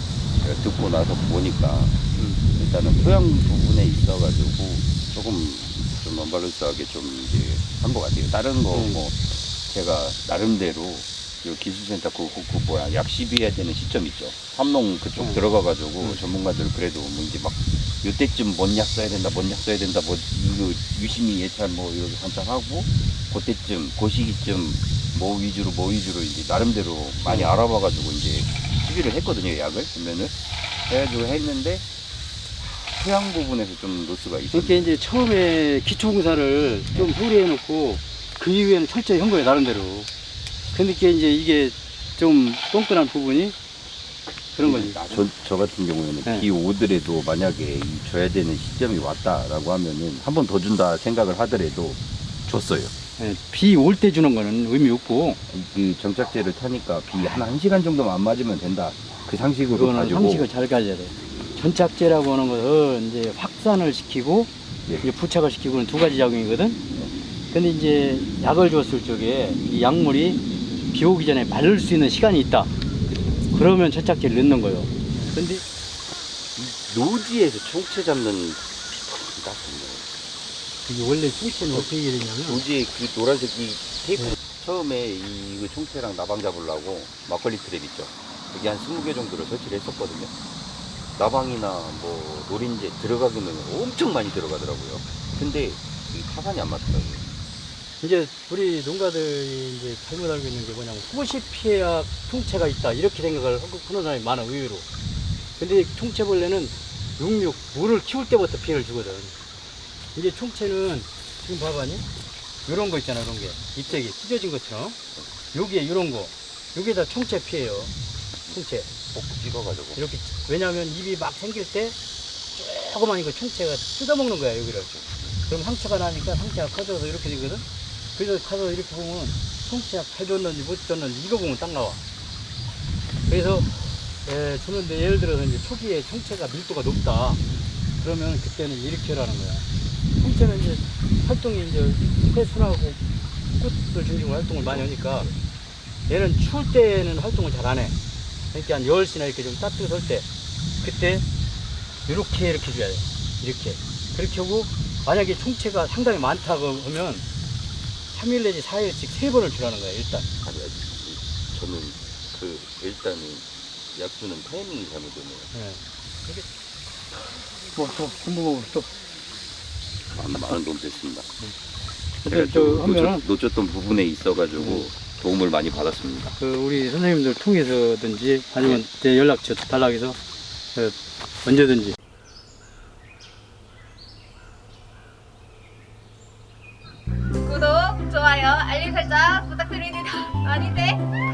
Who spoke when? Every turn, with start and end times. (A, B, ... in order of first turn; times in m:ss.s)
0:00.4-0:02.0 A
0:02.6-0:30.3 A
0:08.7-0:09.0 B
0:30.9-0:31.8 A
0:32.6-0:34.9 A
0:34.5-0:40.1 B
0:40.7-0:43.6 B
0:44.6-0:45.2 B
0:44.6-0:52.9 A
0:53.2-0:55.4 B
0:55.5-1:00.5 A
0:59.7-1:04.5 B
1:05.0-1:06.8 B
1:07.5-1:12.7 B
1:13.5-1:15.6 B
1:16.6-1:20.1 A
1:20.9-1:22.6 B
1:21.6-1:21.9 A
1:22.4-1:30.3 A
1:31.2-1:37.3 A
1:38.0-1:44.9 B
1:45.6-1:49.3 B
1:50.2-1:52.0 B
1:52.7-1:55.0 B
1:55.5-1:57.9 B
1:58.5-1:58.9 B
1:59.1-2:00.0 A
1:59.9-2:01.9 B
2:02.5-2:04.9 B
2:05.4-2:12.0 B
2:13.3-2:13.7 B
2:14.2-2:17.4 B
2:18.0-2:19.6 B
2:20.2-2:23.0 B
2:23.6-2:25.3 B
2:24.6-2:25.3 A
2:26.1-2:27.9 B
2:28.5-2:30.3 B
2:30.8-2:31.2 B
2:32.1-2:37.2 B
2:38.1-2:40.3 B
2:40.4-2:45.5 A
2:45.5-2:45.8 B
2:47.7-2:48.9 B
2:50.1-2:51.3 A
2:52.2-2:56.3 A
2:52.2-2:53.2 B
2:54.6-2:54.8 B
2:56.4-3:00.2 B
3:00.8-3:02.0 B
3:07.4-3:11.0 C